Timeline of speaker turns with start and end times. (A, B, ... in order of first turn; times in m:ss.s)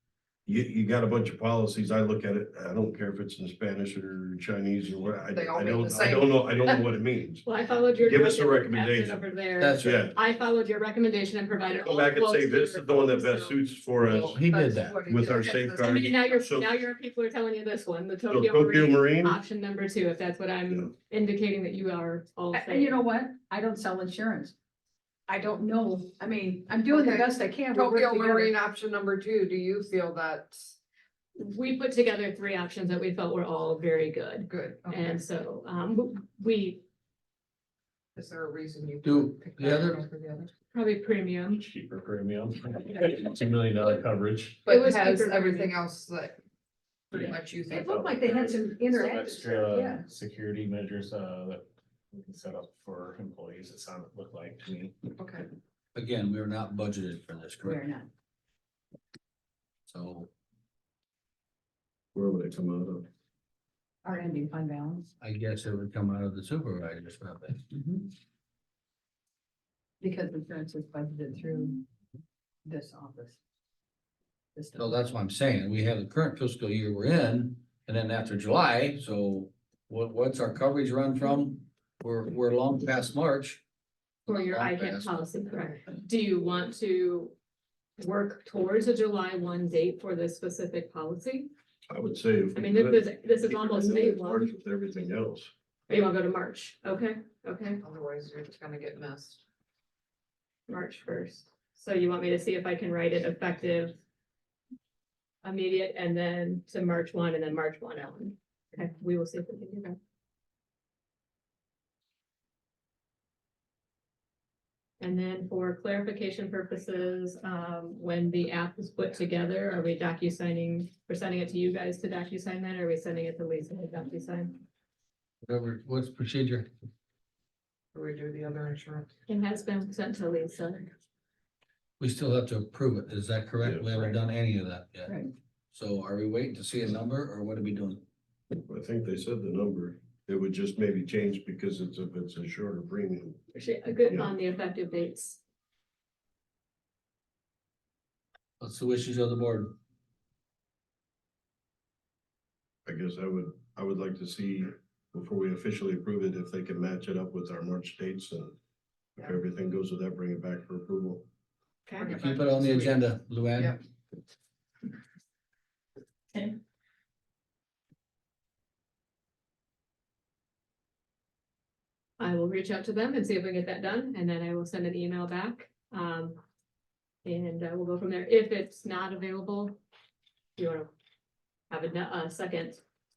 0:00.4-0:07.4 A
0:05.3-0:06.9 B
0:07.4-0:13.6 C
0:08.0-0:09.2 A
0:09.6-0:10.0 D
0:09.8-0:10.2 A
0:11.8-0:14.4 A
0:14.0-0:16.4 B
0:14.1-0:15.0 D
0:15.0-0:16.7 A
0:15.8-0:23.0 C
0:18.3-0:19.4 A
0:22.5-0:24.5 E
0:25.3-0:28.6 E
0:26.8-0:30.6 B
0:31.4-0:36.8 C
0:34.5-0:35.2 B
0:38.2-0:40.5 B
0:39.0-0:40.0 D
0:40.7-0:41.6 C
0:41.5-0:44.7 F
0:44.6-0:46.4 B
0:44.7-0:45.7 C
0:47.1-0:49.6 B
0:47.2-0:50.1 E
0:47.8-0:55.0 F
0:55.2-0:55.4 B
0:55.9-0:57.8 D
0:57.6-0:58.1 E
0:59.9-1:00.3 D
1:02.1-1:03.1 A
1:04.0-1:05.1 E
1:05.2-1:07.6 D
1:07.7-1:08.1 E
1:10.0-1:11.8 E
1:12.6-1:13.4 E
1:14.6-1:15.0 E
1:14.8-1:23.6 D
1:24.3-1:25.1 D
1:24.3-1:27.3 C
1:28.0-1:31.5 C
1:31.9-1:35.5 A
1:32.5-1:34.5 C
1:35.9-1:37.8 C
1:37.8-1:39.4 B
1:40.7-1:44.0 C
1:45.4-1:50.0 C
1:55.0-2:04.6 C
2:05.4-2:06.7 D
2:07.9-2:09.1 B
2:09.3-2:10.9 C
2:12.0-2:18.0 D
2:13.6-2:13.9 A
2:18.7-2:23.4 A
2:23.5-2:25.4 C
2:24.0-2:24.3 A
2:28.6-2:29.7 D
2:32.8-2:38.6 A
2:39.2-2:41.2 A
2:41.9-2:42.2 C
2:42.0-2:43.0 B
2:42.1-2:43.8 D
2:52.2-2:56.4 C
2:57.2-2:59.8 C
3:00.6-3:00.9 C
3:01.7-3:02.8 C